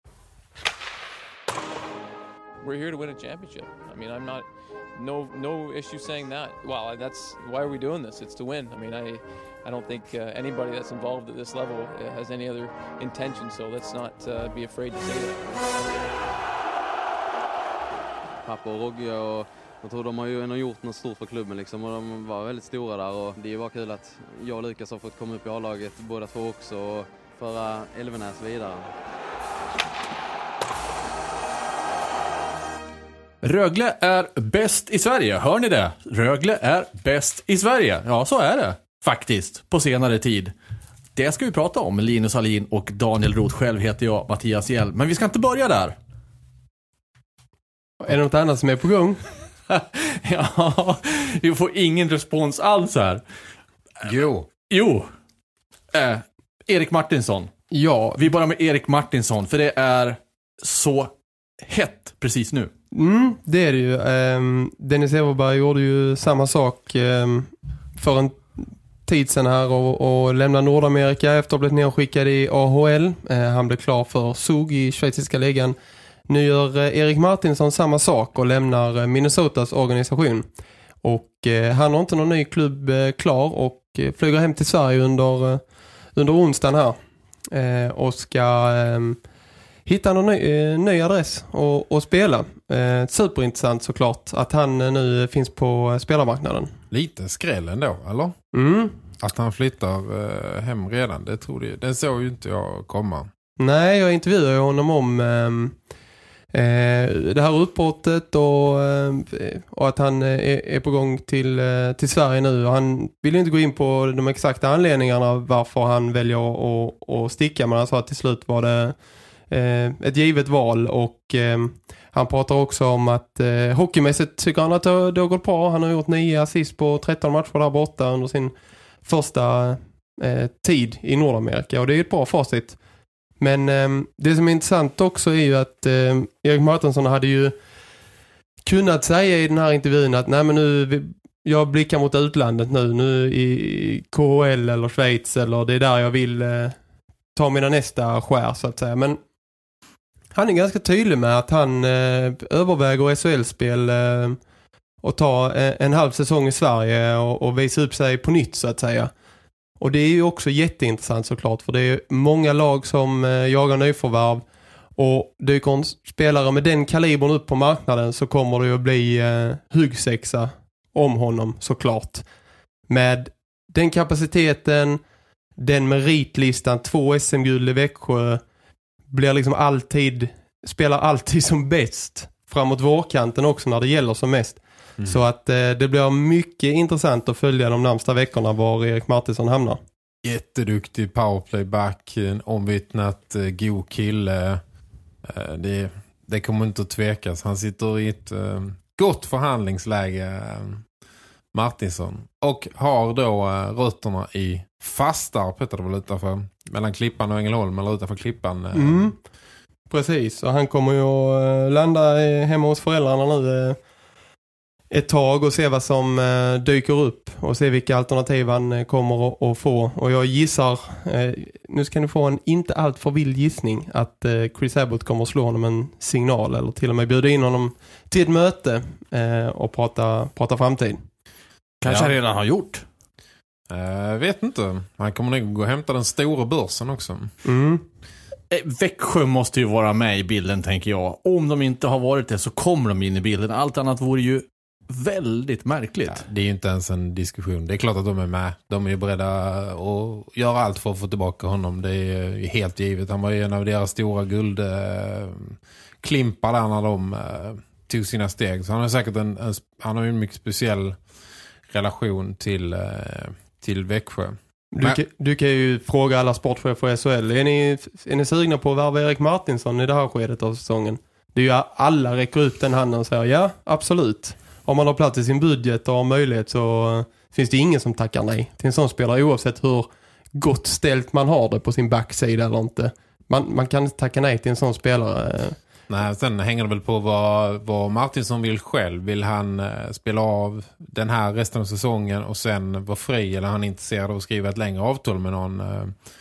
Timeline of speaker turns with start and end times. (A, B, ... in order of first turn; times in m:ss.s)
0:02.6-0:15.8 A
0:18.4-0:28.9 B
0:33.4-0:40.5 C
0:41.2-0:46.0 C
0:48.0-0:49.2 D
0:49.7-0:53.2 C
0:54.0-0:54.5 E
0:54.7-0:55.1 C
0:55.9-0:57.5 C
0:57.7-0:58.2 D
0:58.2-1:02.7 C
1:02.9-1:15.8 D
1:16.3-1:20.4 D
1:21.0-1:25.6 D
1:26.1-1:27.0 D
1:27.5-1:29.2 D
1:29.8-1:36.7 D
1:36.9-1:38.3 E
1:38.5-1:39.0 D
1:39.2-1:43.3 E
1:43.6-1:45.8 D
1:46.5-1:59.0 D
1:59.5-2:08.5 D
2:09.0-2:12.8 D
2:13.4-2:17.5 D
2:18.6-2:26.8 D
2:27.3-2:29.2 D
2:30.3-2:34.4 D
2:35.0-2:39.1 D
2:39.8-2:44.4 D
2:45.0-2:52.2 D
2:52.9-2:55.0 D
2:55.6-2:58.4 D
2:59.1-3:09.8 D
3:10.2-3:14.6 E
3:15.2-3:20.8 E
3:21.5-3:29.1 E
3:28.7-3:29.2 D
3:29.9-3:33.8 D
3:34.9-3:51.0 D
3:51.8-3:52.8 C
3:51.8-3:52.1 E
3:53.7-3:57.3 E
3:57.4-3:57.8 D
3:58.5-4:06.2 C
4:06.1-4:21.0 E
4:21.7-4:25.0 E
4:24.7-4:45.6 D
4:45.9-4:55.9 E